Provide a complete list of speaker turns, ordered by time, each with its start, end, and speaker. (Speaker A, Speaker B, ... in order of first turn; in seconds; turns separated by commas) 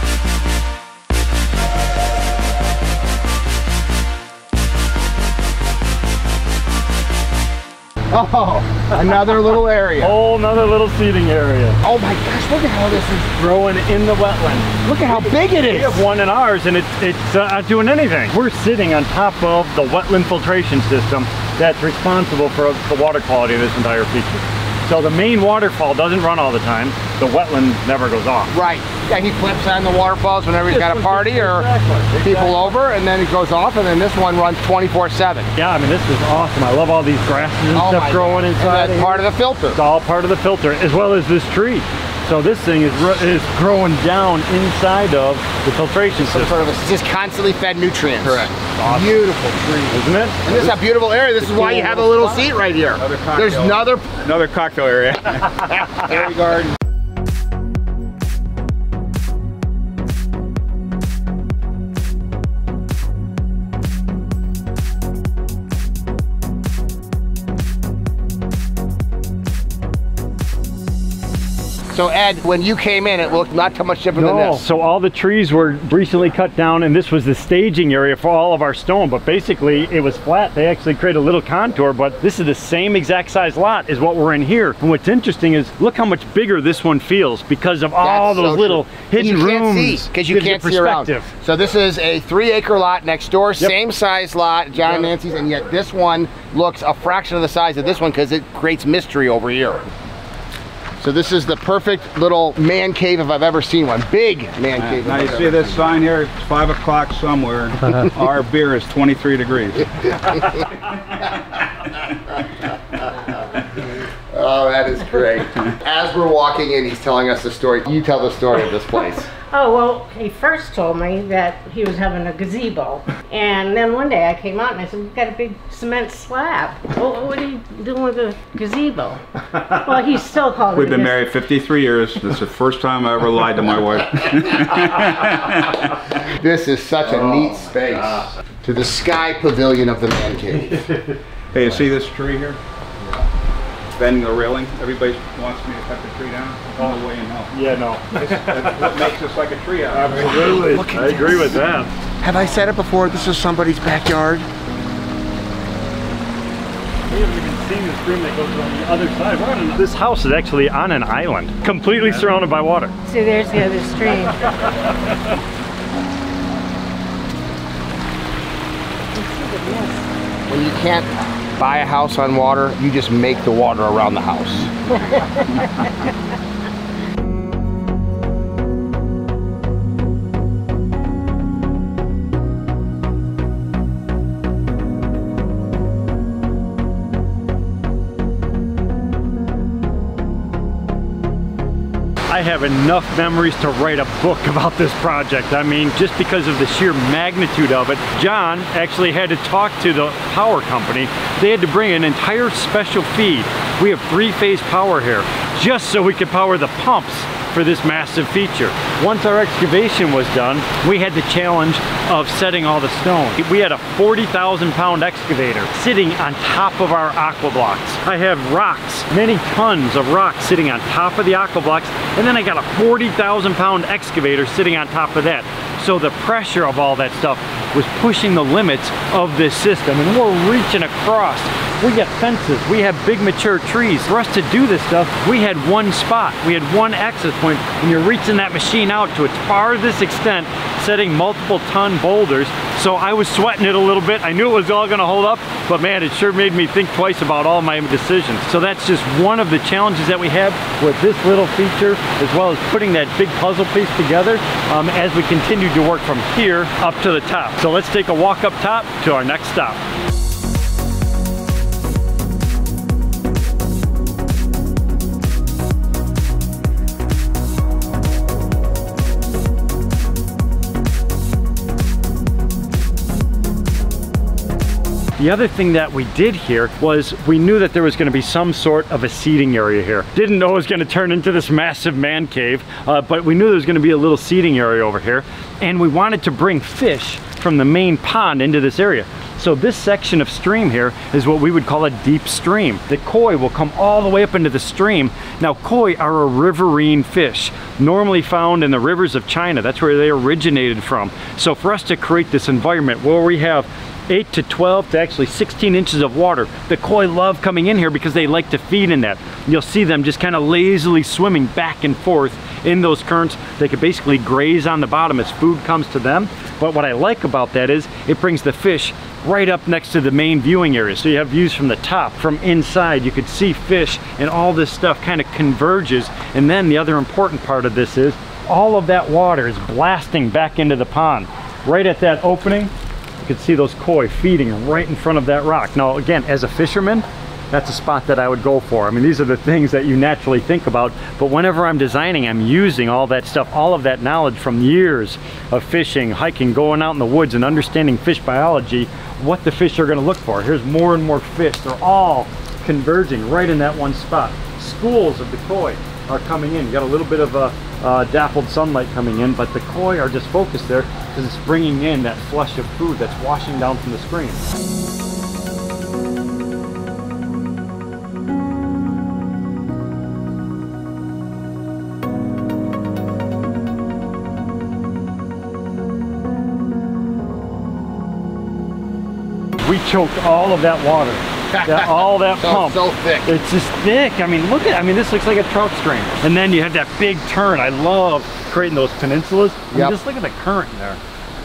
Speaker A: 8.1-10.2, Speaker B: 10.0-11.8, Speaker A: 11.8-13.3, Speaker B: 13.2-28.5, Speaker A: 14.8-16.0, Speaker A: 28.5-31.7, Speaker B: 30.7-32.7, Speaker A: 32.2-35.5, Speaker B: 35.5-46.6, Speaker A: 37.7-39.8, Speaker A: 46.2-54.1, Speaker B: 48.2-49.2, Speaker B: 49.9-50.8, Speaker B: 51.4-52.5, Speaker C: 53.0-56.7, Speaker A: 71.9-74.6, Speaker B: 74.2-91.3, Speaker A: 88.0-99.8, Speaker A: 101.0-105.7, Speaker C: 104.8-110.5, Speaker A: 114.3-119.3, Speaker D: 119.5-131.2, Speaker C: 130.7-136.1, Speaker A: 136.3-140.9, Speaker C: 141.5-142.6, Speaker C: 144.0-147.5, Speaker B: 147.5-148.9, Speaker C: 148.1-150.7, Speaker B: 149.9-151.9, Speaker A: 150.4-151.6, Speaker A: 152.2-154.5, Speaker B: 157.1-162.9, Speaker D: 163.1-164.5, Speaker D: 169.1-170.1, Speaker A: 170.5-174.9, Speaker B: 192.3-259.8, Speaker B: 275.2-364.5, Speaker B: 379.7-391.0, Speaker A: 381.5-383.4